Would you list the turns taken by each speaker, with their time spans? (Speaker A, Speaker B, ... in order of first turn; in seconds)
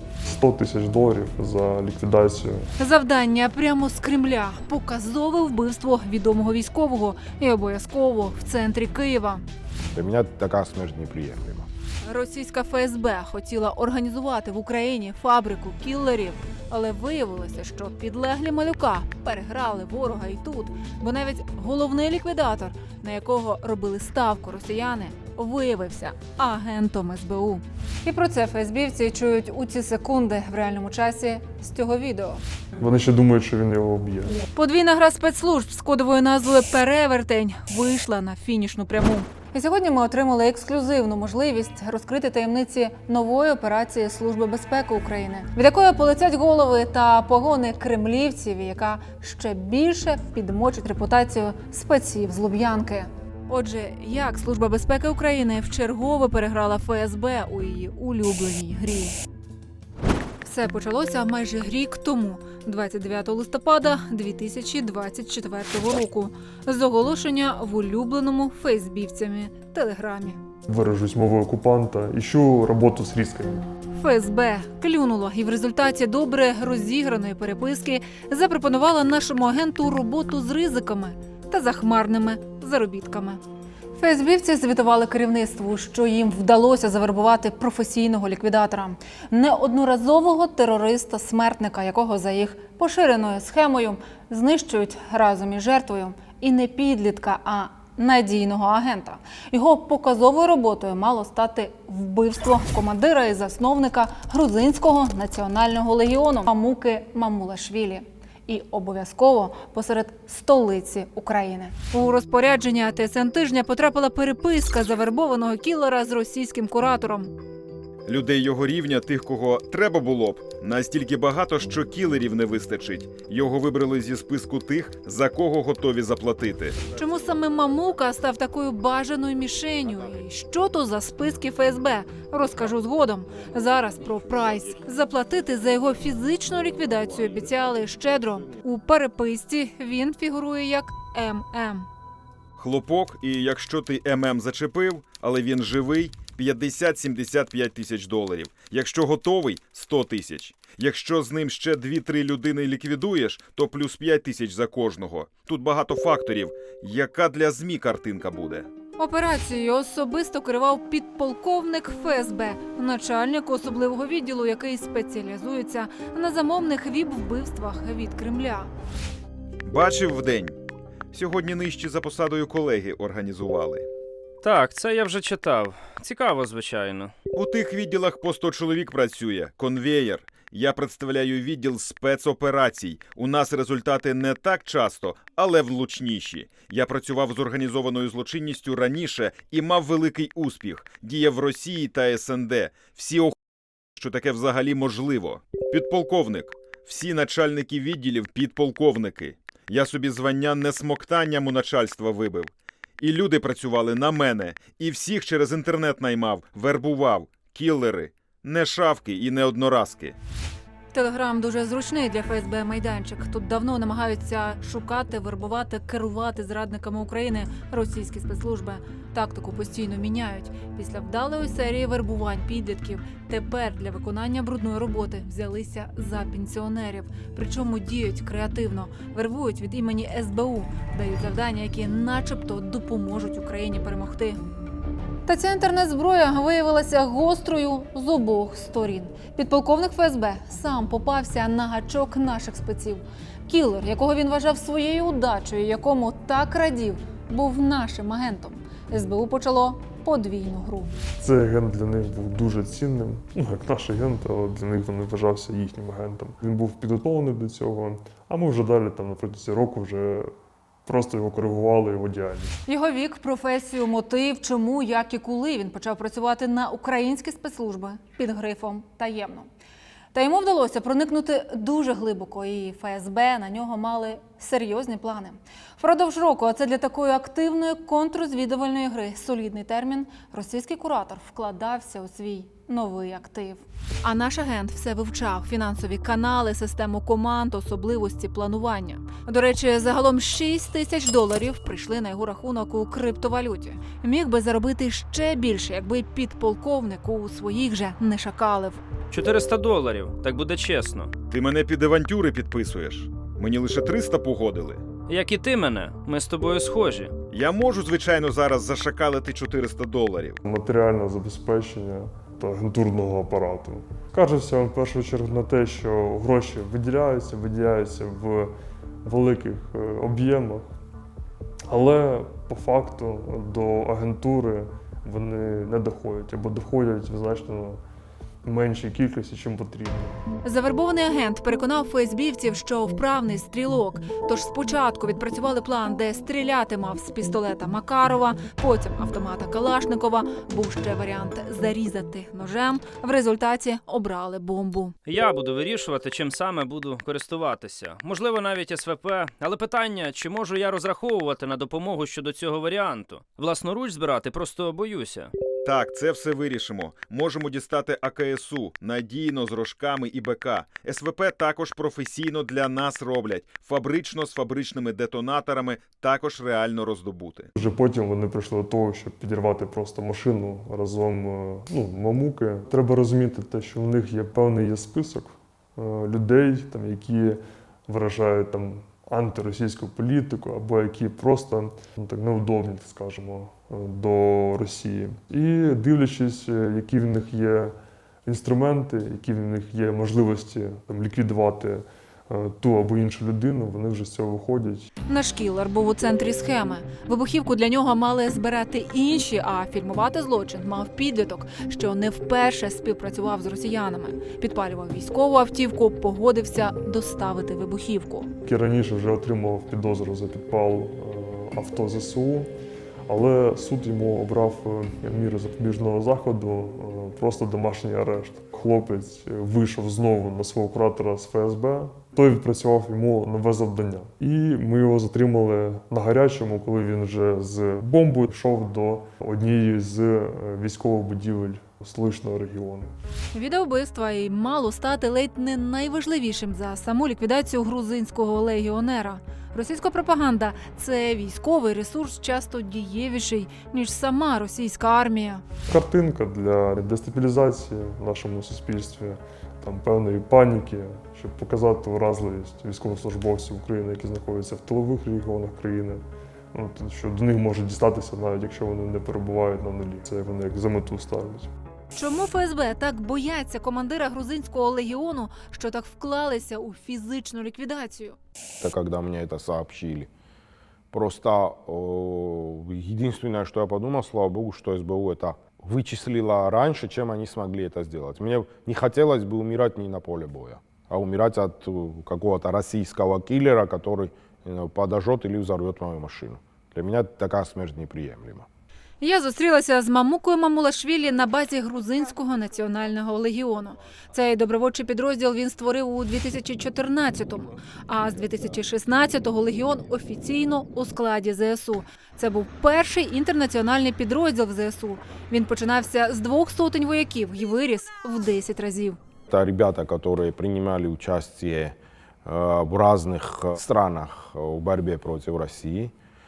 Speaker A: 0.3-2.6, 32.8-34.4, 70.7-73.7, 251.2-260.3, 260.9-262.6, 310.4-318.5, 319.0-320.7, 321.7-327.8, 328.4-330.2, 367.6-394.9, 408.4-412.5, 413.1-432.9, 445.7-461.5
Speaker B: 2.8-9.4, 12.1-32.4, 34.5-59.1, 60.4-70.4, 73.9-83.4, 83.9-117.3, 126.9-141.9, 159.0-168.7, 210.9-234.4, 235.2-250.9, 262.6-269.5, 270.1-298.8, 330.4-344.9, 395.1-408.3, 433.3-445.4, 461.9-468.2, 489.0-509.0
Speaker C: 9.9-11.7, 468.6-470.1, 470.9-488.5, 509.3-515.9
Speaker D: 118.0-126.8, 142.6-158.7, 169.6-170.6, 171.1-173.9, 177.3-193.3, 193.9-210.2, 301.3-304.9, 307.3-310.4, 355.6-367.5
Speaker E: 174.4-177.1, 299.1-301.1, 305.1-307.1, 345.1-355.3